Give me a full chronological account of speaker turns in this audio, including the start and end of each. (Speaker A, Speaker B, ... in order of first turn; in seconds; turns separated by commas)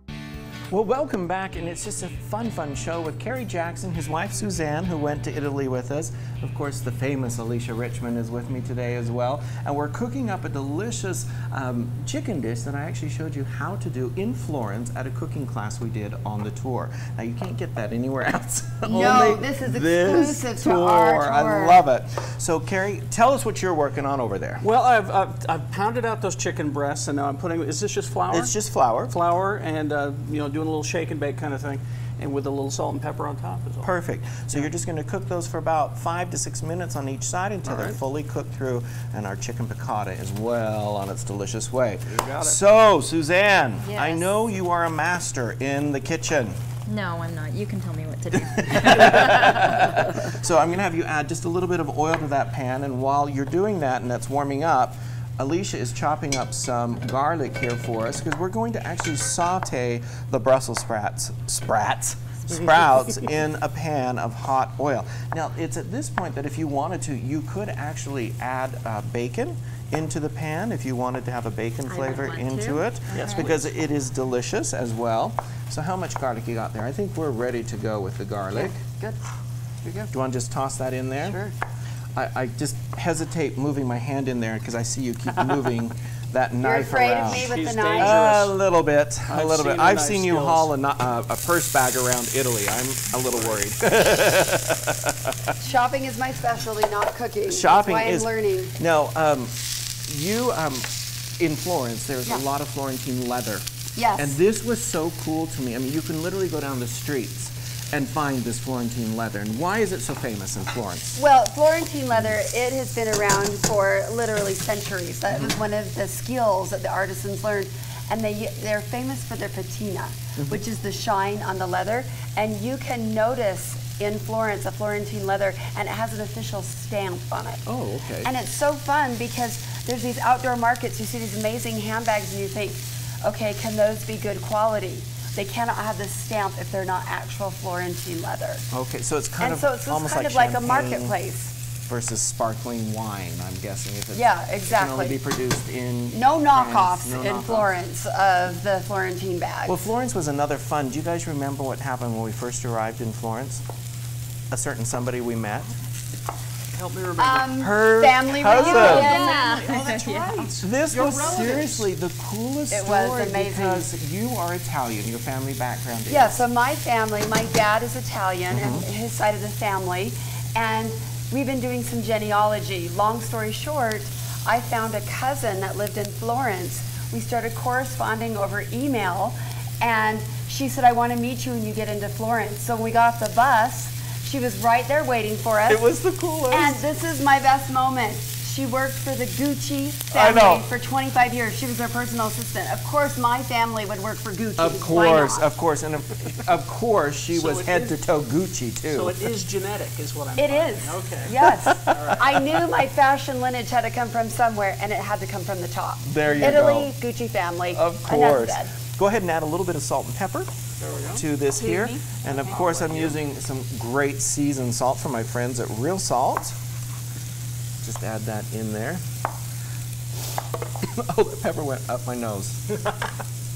Speaker A: 0.7-24.6, Speaker B: 18.9-21.8, Speaker C: 24.6-28.5, Speaker A: 28.3-29.1, Speaker C: 29.1-33.9, Speaker A: 33.8-46.6, Speaker C: 37.6-38.0, Speaker C: 42.1-42.6, Speaker D: 43.8-44.3, Speaker D: 46.9-49.8, Speaker A: 48.3-78.8, Speaker D: 71.9-73.6, Speaker C: 73.1-73.5, Speaker B: 78.5-79.2, Speaker B: 79.8-80.1, Speaker A: 80.1-81.4, Speaker B: 81.2-81.5, Speaker A: 82.1-95.5, Speaker B: 86.6-88.2, Speaker C: 87.2-88.6, Speaker C: 89.3-90.7, Speaker C: 93.3-93.6, Speaker B: 95.6-98.7, Speaker A: 97.5-111.2, Speaker B: 104.0-104.4, Speaker B: 111.2-127.6, Speaker A: 127.7-128.3, Speaker B: 128.2-138.6, Speaker A: 138.7-141.2, Speaker B: 139.4-141.5, Speaker A: 141.9-147.7, Speaker B: 144.1-145.2, Speaker B: 146.1-149.8, Speaker A: 149.7-153.6, Speaker A: 154.5-155.7, Speaker C: 156.7-157.5, Speaker B: 157.2-159.4, Speaker A: 157.6-159.1, Speaker D: 158.5-160.5, Speaker C: 158.6-161.9, Speaker A: 160.6-166.4, Speaker B: 162.7-163.9, Speaker B: 166.1-185.8, Speaker A: 168.5-168.8, Speaker A: 185.7-186.8, Speaker B: 186.5-195.5, Speaker A: 190.1-190.7, Speaker A: 194.6-199.2, Speaker C: 197.3-198.0, Speaker C: 198.9-202.2, Speaker B: 200.4-208.7, Speaker A: 201.4-202.6, Speaker A: 206.0-206.9, Speaker A: 207.7-210.5, Speaker C: 210.8-211.2, Speaker A: 211.1-216.6, Speaker D: 211.6-212.0, Speaker C: 212.3-213.2, Speaker A: 217.8-219.0, Speaker A: 220.8-223.1